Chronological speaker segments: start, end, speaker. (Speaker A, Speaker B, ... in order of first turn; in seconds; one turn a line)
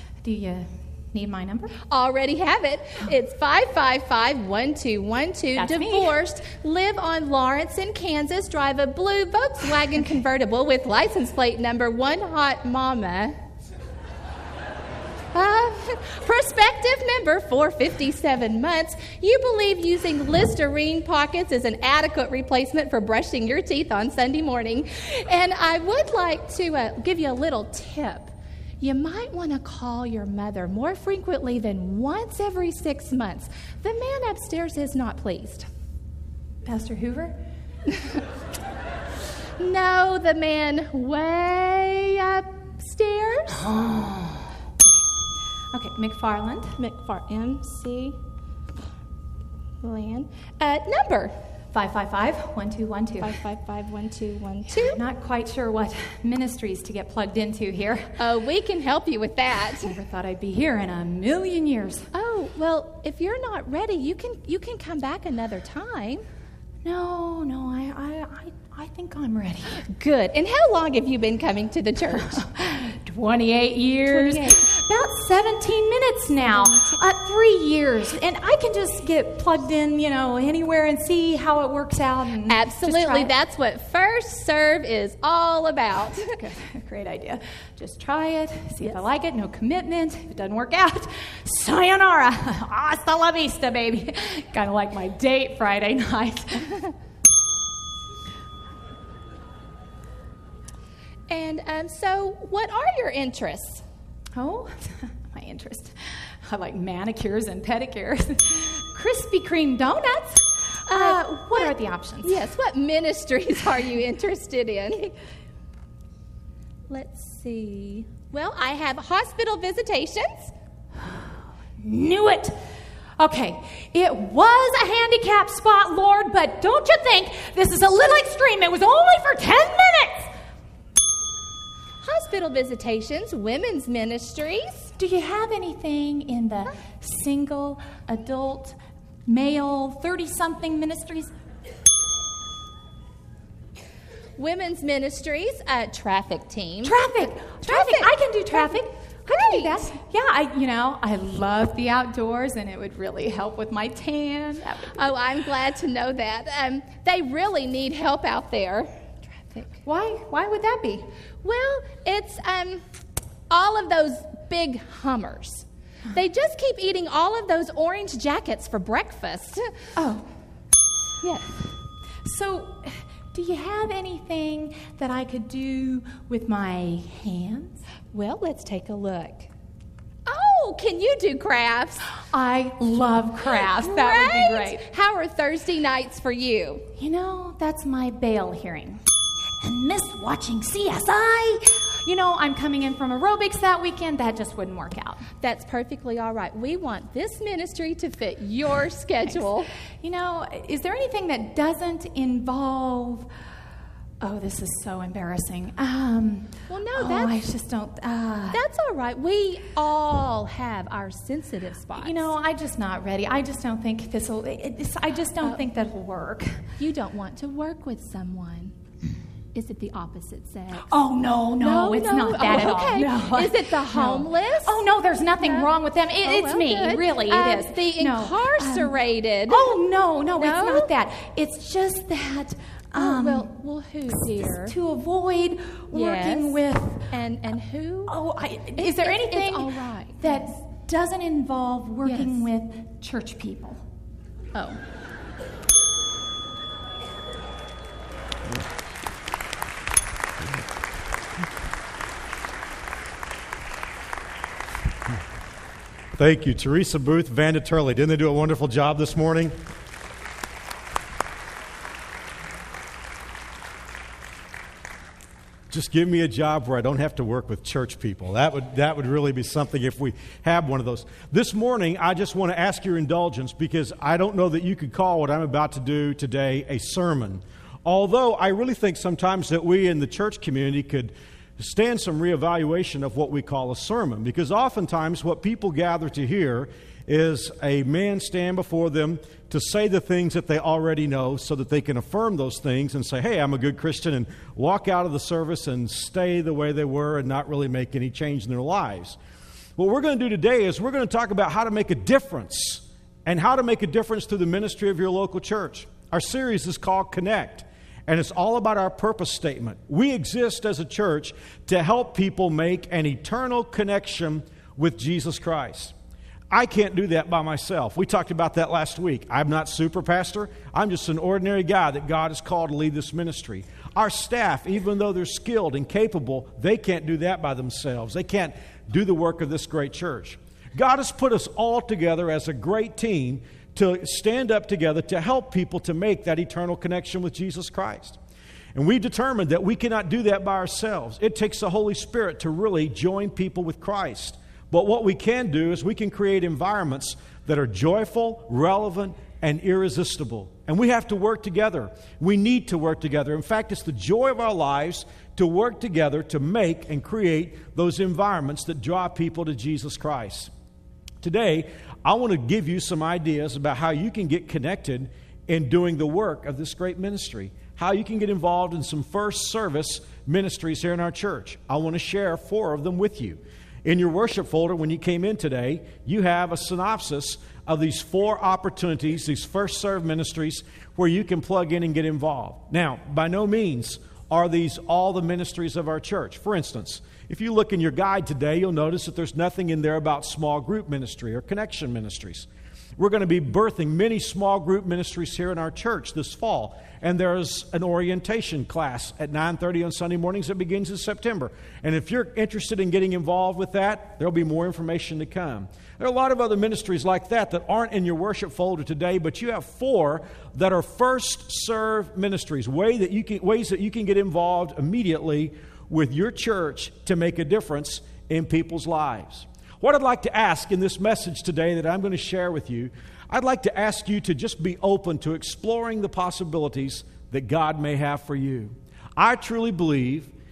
Speaker A: 0.2-1.8
Speaker B: 1.9-13.3
Speaker A: 5.5-6.2
Speaker B: 15.3-35.7
Speaker A: 36.6-37.4
Speaker B: 37.9-38.2
Speaker B: 39.6-43.6
Speaker A: 43.5-44.6
Speaker A: 45.7-46.8
Speaker B: 46.8-48.2
Speaker B: 49.8-51.4
Speaker A: 51.7-53.4
Speaker B: 53.2-55.0
Speaker A: 54.7-58.2
Speaker B: 58.2-59.9
Speaker A: 59.8-62.1
Speaker B: 62.1-66.2
Speaker A: 66.8-69.8
Speaker B: 69.8-72.4
Speaker A: 72.2-83.3
Speaker B: 74.1-74.7
Speaker B: 76.5-77.0
Speaker B: 82.5-86.3
Speaker A: 86.3-96.9
Speaker B: 101.3-103.8
Speaker A: 104.3-112.4
Speaker B: 110.9-115.1
Speaker B: 116.9-120.5
Speaker A: 121.8-122.6
Speaker A: 123.2-130.3
Speaker B: 132.0-134.9
Speaker A: 135.0-141.3
Speaker B: 144.4-148.8
Speaker A: 146.8-155.1
Speaker B: 149.3-149.9
Speaker B: 154.9-159.8
Speaker A: 159.8-161.1
Speaker B: 161.4-162.8
Speaker B: 163.5-169.7
Speaker A: 169.9-170.3
Speaker B: 171.2-171.5
Speaker A: 172.2-177.8
Speaker B: 178.1-179.5
Speaker B: 180.2-182.1
Speaker A: 182.2-184.8
Speaker B: 183.4-186.9
Speaker A: 187.0-189.0
Speaker A: 189.6-195.2
Speaker B: 195.4-199.7
Speaker A: 200.0-203.3
Speaker A: 204.2-208.6
Speaker B: 206.7-207.4
Speaker B: 208.5-212.3
Speaker A: 212.0-216.7
Speaker B: 216.8-218.7
Speaker B: 219.5-220.9
Speaker A: 220.8-228.9
Speaker B: 221.6-224.8
Speaker B: 225.4-225.7
Speaker B: 226.2-229.8
Speaker A: 229.5-233.5
Speaker B: 230.4-230.9
Speaker B: 232.9-234.8
Speaker A: 234.1-237.1
Speaker B: 235.9-238.2
Speaker A: 238.1-243.8
Speaker B: 238.8-240.4
Speaker B: 242.0-242.5
Speaker B: 244.5-244.8
Speaker C: 256.1-259.6
Speaker C: 265.7-299.2
Speaker C: 299.8-315.9
Speaker C: 316.5-338.2
Speaker C: 338.7-360.5
Speaker C: 361.2-430.3